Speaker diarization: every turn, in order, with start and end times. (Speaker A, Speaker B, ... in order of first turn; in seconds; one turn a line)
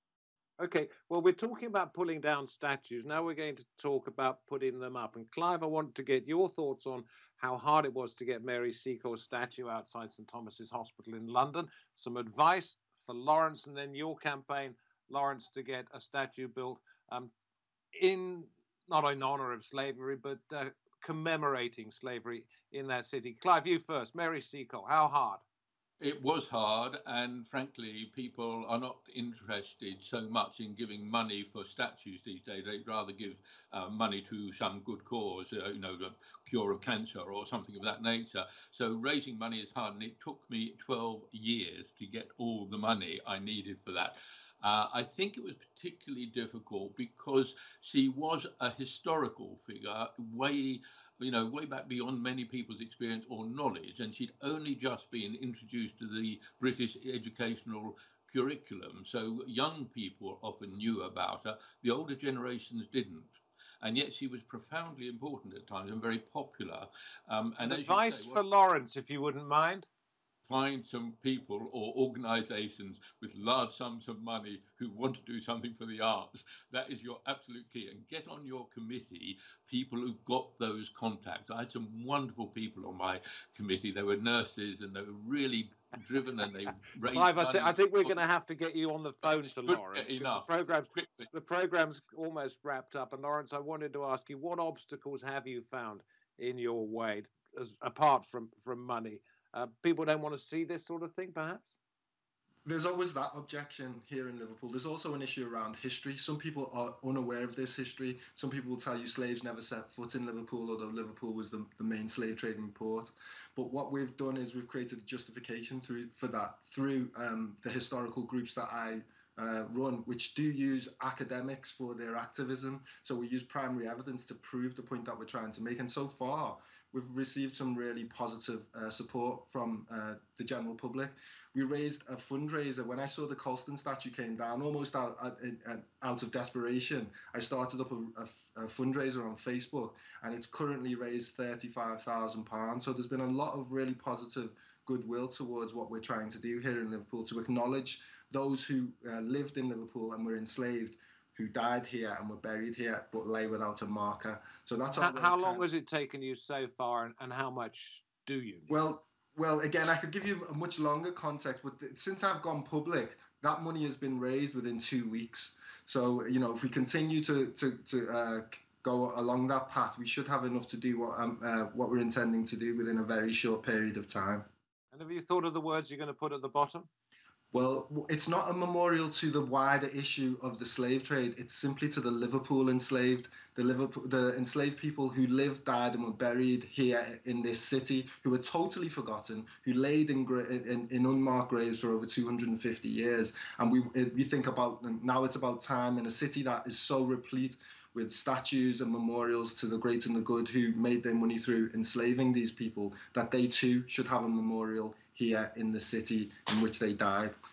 Speaker A: 0.6-17.3
Speaker A: 17.9-25.4
Speaker B: 26.0-68.4
Speaker A: 67.6-69.9
Speaker B: 70.5-88.2
Speaker A: 87.1-101.7
Speaker B: 89.4-91.3
Speaker C: 102.6-155.6
Speaker A: 154.9-158.7
Speaker C: 158.7-174.5
Speaker A: 174.9-176.9
Speaker C: 177.5-207.3